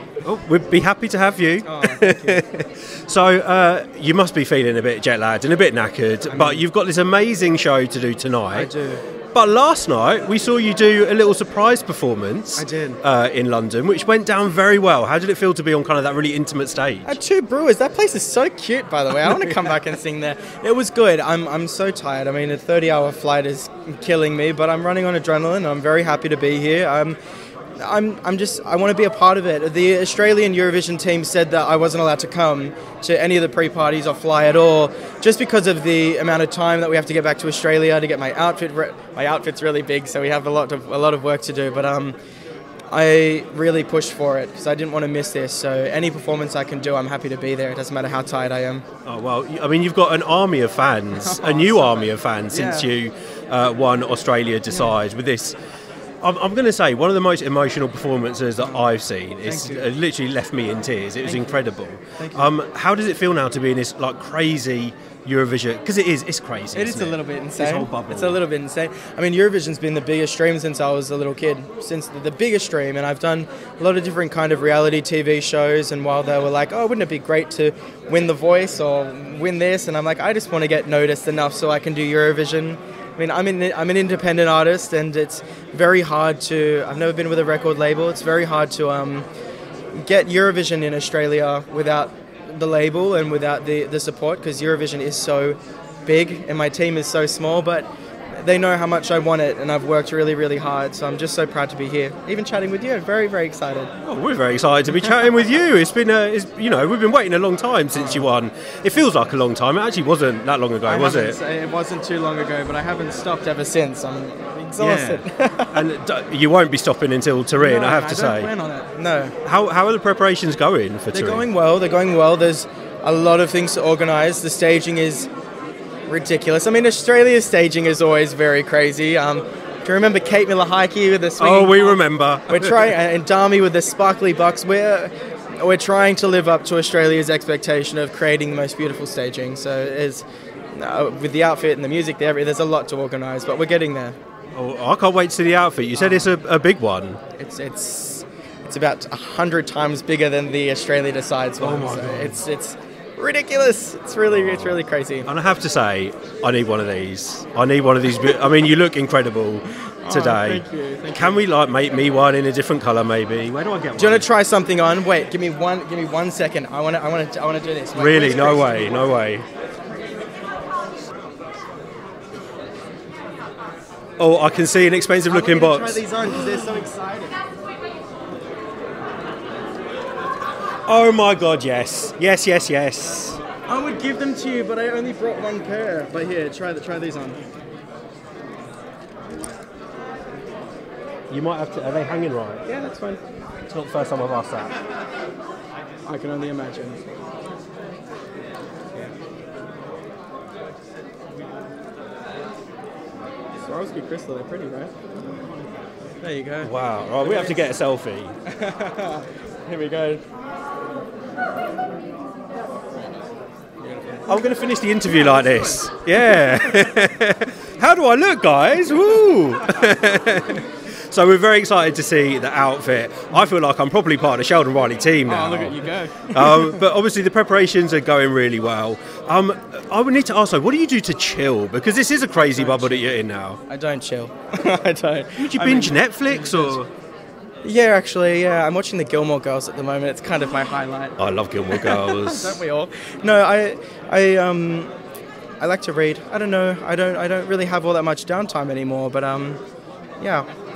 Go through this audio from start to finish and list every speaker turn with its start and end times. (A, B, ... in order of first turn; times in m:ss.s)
0:00.2-0:08.7 A
0:01.6-0:02.4 B
0:06.2-0:06.6 B
0:08.5-0:09.0 B
0:09.3-0:17.2 A
0:12.6-0:13.0 B
0:17.0-0:27.2 B
0:27.8-0:42.2 B
0:42.9-0:48.8 B
0:49.0-0:55.6 A
0:51.1-0:52.9 B
0:56.2-1:08.4 A
0:58.6-0:59.9 B
1:01.2-1:01.6 B
1:02.2-1:02.5 B
1:06.7-1:29.3 B
1:29.9-1:43.9 B
1:44.0-1:51.4 A
1:47.9-1:48.3 B
1:50.8-1:55.8 B
1:54.8-1:58.5 A
1:57.5-1:59.4 B
1:59.4-2:01.5 A
2:01.1-2:05.3 B
2:06.1-2:24.2 B
2:11.4-2:12.9 A
2:24.5-2:27.2 A
2:26.0-2:26.4 B
2:27.4-2:35.3 B
2:31.6-2:32.4 A
2:34.3-2:44.3 A
2:40.0-2:41.4 B
2:44.0-2:49.0 B
2:47.9-2:49.5 A
2:54.2-2:56.0 A
2:55.2-2:57.4 B
3:00.9-3:03.4 A
3:03.7-3:07.4 B
3:11.3-3:12.6 A
3:12.6-3:13.2 B
3:13.7-3:14.7 A
3:16.0-3:17.0 B
3:23.6-3:24.9 B
3:26.2-3:27.8 B
3:26.6-3:28.4 A
3:28.4-3:30.2 B
3:33.8-3:34.4 B
3:34.3-3:53.6 A
3:35.1-3:36.9 B
3:45.2-3:46.8 B
3:52.3-3:56.8 B
3:55.4-3:56.9 A
3:57.6-4:04.9 B
4:01.2-4:02.6 A
4:05.6-4:09.6 B
4:10.2-4:10.5 B